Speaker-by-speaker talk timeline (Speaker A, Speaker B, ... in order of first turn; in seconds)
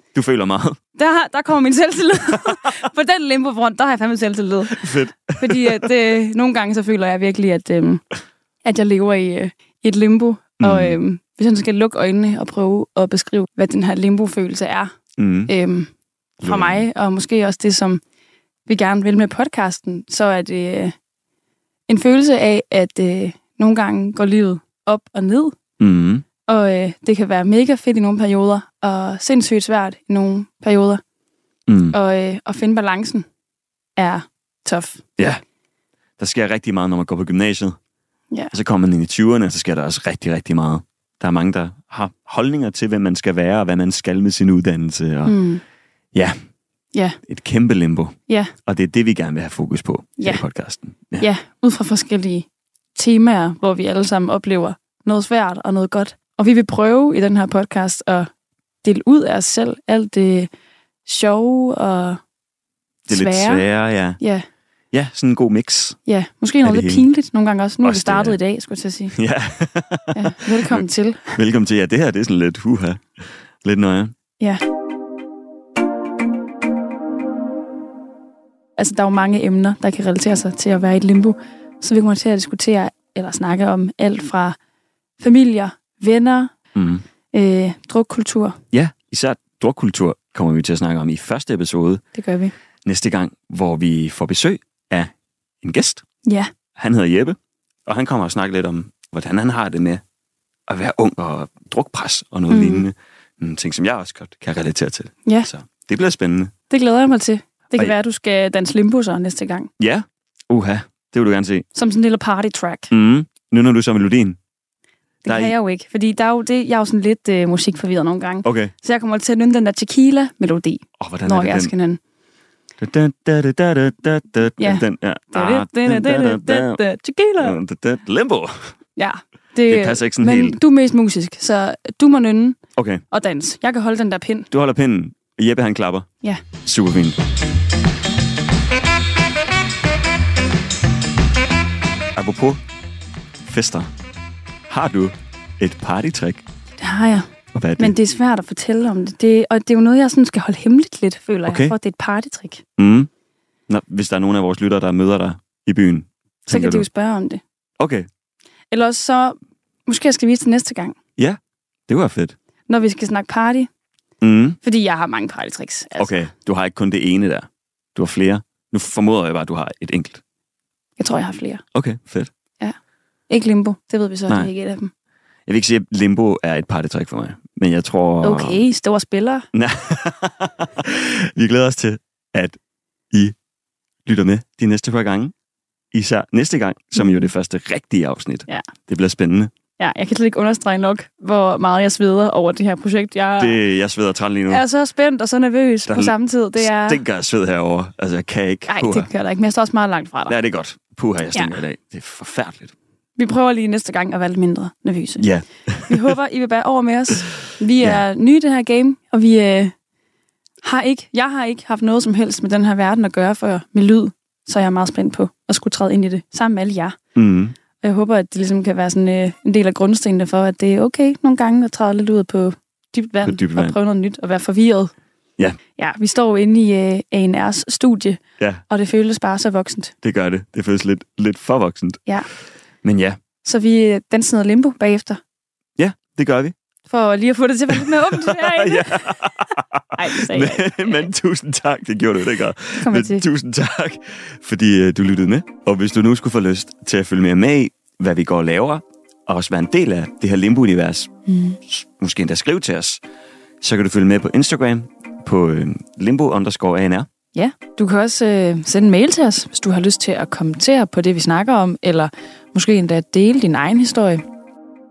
Speaker A: 0.1-0.8, 4.7-5.9, 10.6-11.0, 15.2-15.5, 16.4-16.9, 25.8-26.2, 31.7-32.0, 36.2-37.8, 38.5-45.4, 47.3-48.1, 48.6-51.3, 63.1-64.2, 64.9-66.0, 66.6-67.1, 67.8-68.4, 69.1-73.1, 73.6-74.1, 86.7-87.0, 88.7-92.0, 92.8-95.1, 95.6-96.0, 96.8-100.0, 100.7-106.5, 109.8-111.6, 112.9-114.4, 115.2-115.5, 118.4-118.7, 121.0-121.7, 122.8-126.8, 127.4-128.7, 129.7-130.6, 132.8-133.0, 134.5-136.1, 136.6-137.2, 142.2-142.6, 143.4-143.9, 144.7-146.4, 147.5-147.9, 151.4-151.7, 152.8-153.1, 153.7-156.8, 157.8-158.1, 161.9-162.3, 164.2-164.6, 166.0-170.2, 171.7-172.3, 175.5-178.6, 179.5-182.6, 184.1-185.3, 185.9-189.5, 193.4-194.6, 195.9-199.1, 200.3-202.7, 205.2-206.1, 207.8-208.0, 217.1-217.6, 223.2-223.8, 230.0-232.0, 232.8-233.2, 235.8-236.5, 237.7-251.1, 251.7-253.0, 253.6-257.1
Speaker B: 0.9-8.0, 8.6-14.9, 15.5-15.9, 16.4-18.0, 18.6-20.9, 21.9-25.6, 26.4-31.0, 31.9-33.2, 34.0-35.0, 45.2-45.6, 46.9-47.2, 48.3-48.5, 51.2-58.3, 58.8-60.5, 61.0-62.2, 63.1-63.7, 64.2-64.5, 66.0-69.2, 70.1-71.4, 78.8-84.5, 85.2-86.5, 87.3-88.6, 92.1-92.5, 96.2-96.5, 102.5-102.9, 106.7-109.7, 111.7-112.9, 115.2-122.0, 124.6-127.6, 128.9-132.6, 133.1-134.5, 146.8-152.6, 156.5-157.4, 158.7-160.9, 162.7-163.7, 164.6-166.2, 171.0-171.6, 173.3-174.9, 178.2-179.5, 187.0-187.3, 189.8-193.6, 194.5-197.0, 198.7-200.4, 201.3-201.6, 203.2-205.3, 205.9-209.7, 210.6-217.0, 217.8-224.9, 225.8-229.9, 233.4-235.2, 236.9-241.1, 242.8-243.3, 251.3-251.6, 257.3-264.2